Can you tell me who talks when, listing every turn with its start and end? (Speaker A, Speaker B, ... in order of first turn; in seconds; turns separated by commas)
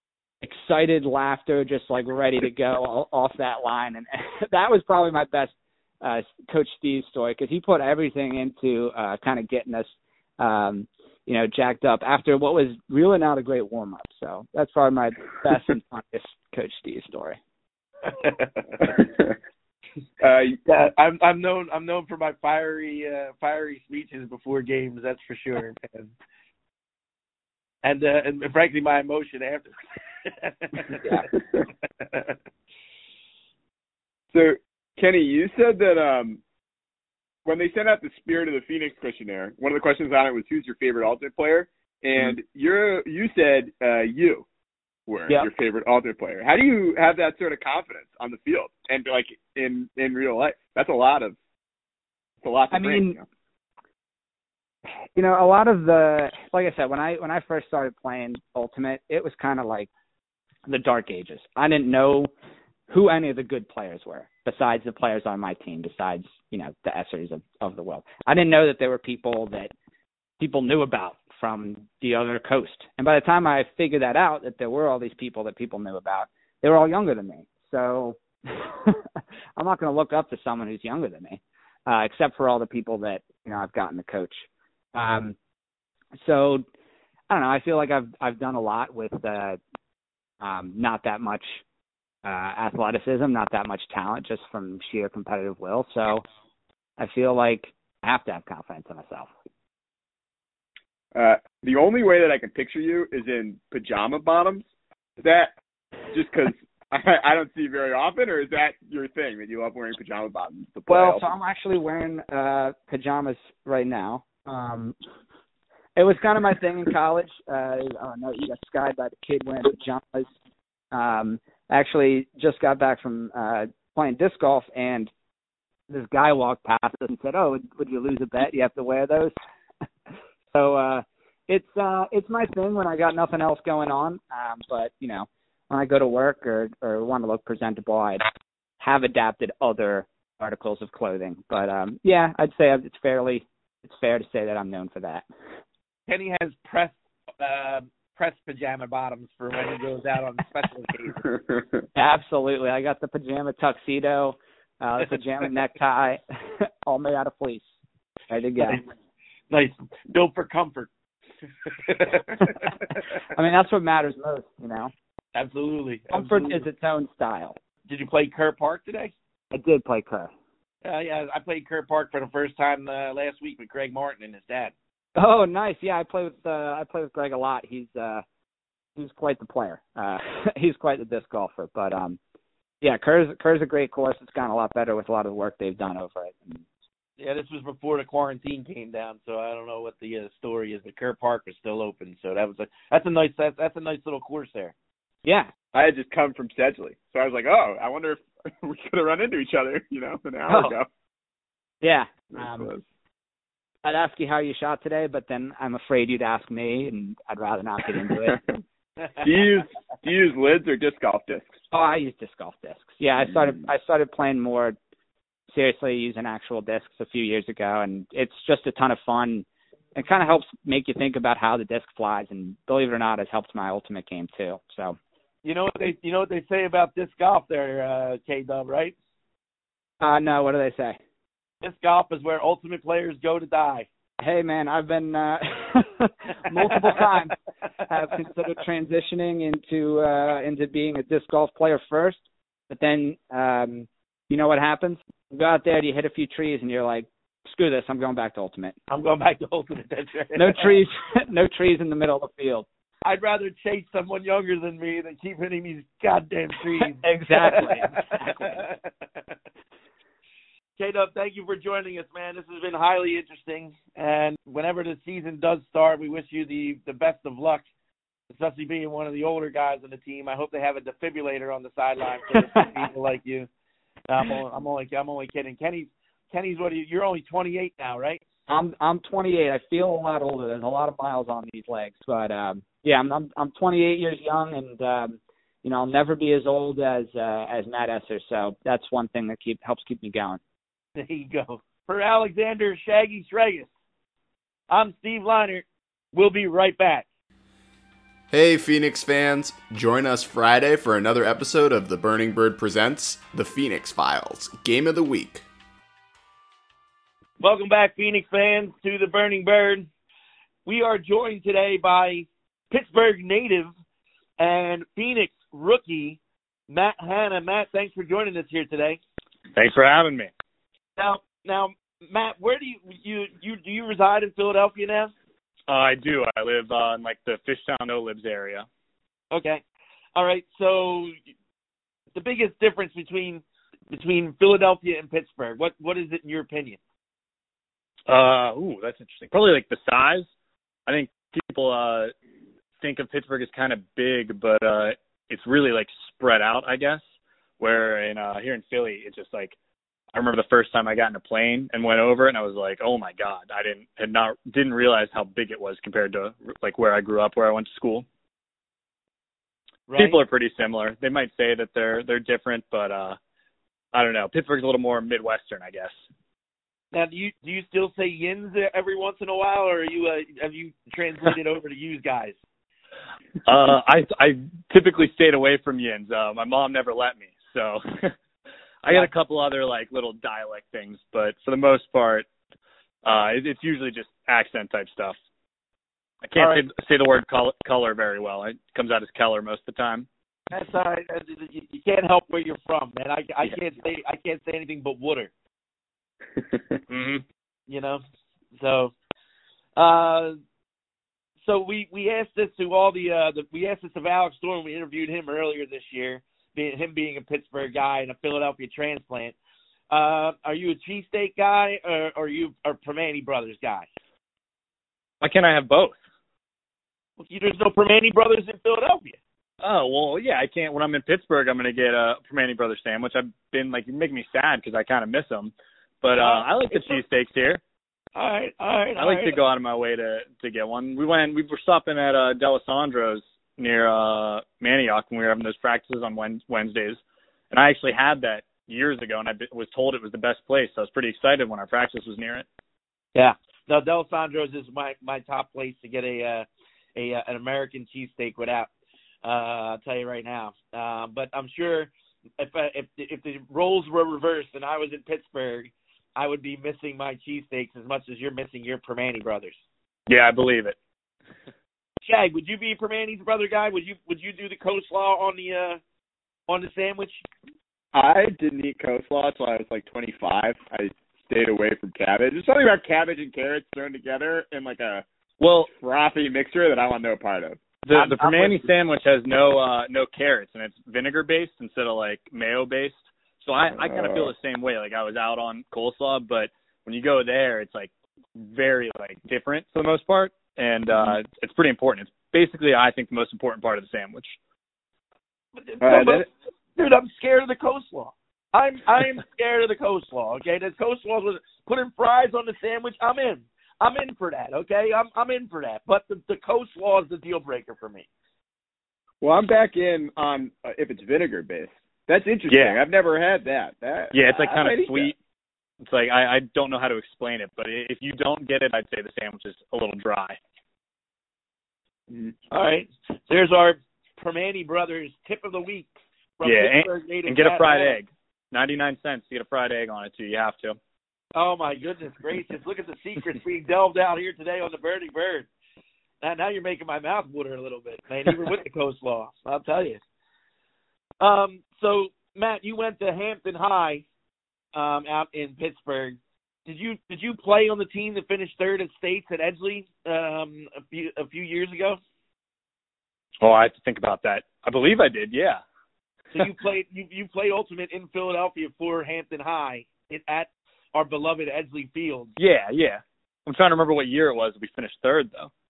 Speaker A: 0.4-17.4, Speaker B: 18.1-18.9, Speaker C: 20.2-20.6, Speaker B: 20.6-26.1, Speaker B: 27.8-31.2, Speaker B: 32.0-32.4, Speaker C: 34.3-36.4, Speaker C: 37.5-44.5, Speaker C: 45.1-51.4, Speaker C: 52.4-53.2, Speaker A: 52.7-53.1, Speaker A: 55.1-59.9, Speaker A: 60.7-62.3, Speaker A: 62.9-69.7, Speaker A: 70.4-79.0, Speaker A: 79.6-85.3, Speaker A: 86.1-86.6, Speaker A: 87.3-89.6, Speaker A: 90.4-91.6, Speaker A: 92.2-96.2, Speaker A: 97.0-99.3, Speaker C: 101.1-104.7, Speaker C: 105.2-105.5, Speaker C: 106.1-111.2, Speaker A: 110.9-115.0, Speaker A: 116.0-120.3, Speaker A: 120.9-125.1, Speaker A: 125.9-129.3, Speaker A: 130.5-138.3, Speaker A: 138.8-145.2, Speaker B: 146.1-151.3, Speaker A: 151.9-157.6, Speaker A: 158.3-158.8, Speaker B: 159.5-160.9, Speaker B: 161.7-162.8, Speaker A: 163.3-164.9, Speaker B: 165.3-166.6, Speaker A: 166.1-167.6, Speaker B: 167.9-169.1, Speaker A: 169.5-170.3, Speaker B: 170.8-174.7, Speaker A: 175.2-178.2, Speaker A: 179.0-182.2, Speaker A: 182.8-186.6, Speaker B: 187.2-194.7, Speaker A: 195.2-195.5, Speaker C: 195.7-200.9, Speaker A: 200.5-200.8, Speaker A: 201.8-202.7, Speaker C: 202.3-202.8, Speaker A: 203.8-208.4, Speaker C: 208.3-208.6, Speaker C: 209.1-211.5, Speaker A: 211.7-214.8, Speaker A: 215.5-225.0, Speaker B: 225.4-228.9, Speaker A: 230.0-231.0, Speaker B: 231.6-233.9, Speaker A: 234.2-248.8, Speaker B: 248.9-250.8, Speaker A: 250.3-252.7, Speaker B: 253.0-259.4, Speaker A: 257.0-258.6, Speaker B: 260.8-267.6, Speaker B: 268.3-273.5, Speaker B: 274.1-278.2, Speaker A: 278.5-290.4, Speaker B: 291.0-293.7, Speaker B: 294.7-297.1, Speaker D: 298.3-305.5, Speaker B: 307.4-309.9, Speaker B: 310.6-313.7, Speaker B: 314.4-319.0, Speaker E: 319.5-320.3, Speaker B: 321.0-325.1, Speaker E: 325.7-328.6, Speaker B: 329.3-329.6, Speaker B: 330.1-331.1, Speaker B: 332.1-336.8, Speaker E: 338.1-340.3, Speaker E: 340.9-342.1, Speaker E: 342.8-347.0, Speaker E: 347.6-349.6, Speaker E: 350.1-358.1, Speaker B: 359.9-360.2, Speaker E: 359.9-363.2, Speaker E: 363.9-365.9, Speaker B: 366.9-372.4, Speaker E: 373.4-378.1, Speaker E: 378.8-382.2, Speaker E: 383.0-385.1, Speaker E: 386.2-390.1, Speaker B: 386.4-386.6, Speaker B: 390.5-395.3, Speaker E: 396.9-397.2, Speaker B: 397.7-398.0, Speaker B: 398.5-398.9, Speaker B: 399.8-400.4, Speaker B: 401.4-409.4, Speaker B: 409.9-413.9, Speaker E: 415.2-416.0, Speaker B: 417.2-419.2, Speaker E: 419.6-427.6, Speaker B: 426.2-427.0, Speaker B: 428.1-429.4, Speaker E: 429.0-437.0, Speaker E: 437.5-442.5, Speaker B: 443.1-448.7, Speaker B: 449.2-459.6, Speaker E: 460.1-460.8, Speaker B: 462.0-465.8, Speaker B: 466.5-467.2, Speaker C: 467.9-475.0, Speaker E: 475.4-475.7, Speaker C: 475.7-477.8, Speaker E: 477.9-494.4, Speaker B: 477.9-478.6, Speaker C: 483.7-484.3, Speaker B: 495.6-508.1, Speaker C: 495.8-496.3, Speaker C: 509.2-515.1, Speaker E: 512.5-512.8, Speaker E: 514.1-515.1, Speaker E: 515.8-520.4, Speaker B: 522.5-528.0, Speaker E: 526.4-530.8, Speaker B: 531.4-535.5, Speaker B: 536.2-540.0, Speaker B: 541.2-544.0, Speaker B: 544.7-552.0, Speaker E: 553.4-555.6, Speaker B: 556.3-562.4, Speaker E: 562.4-565.5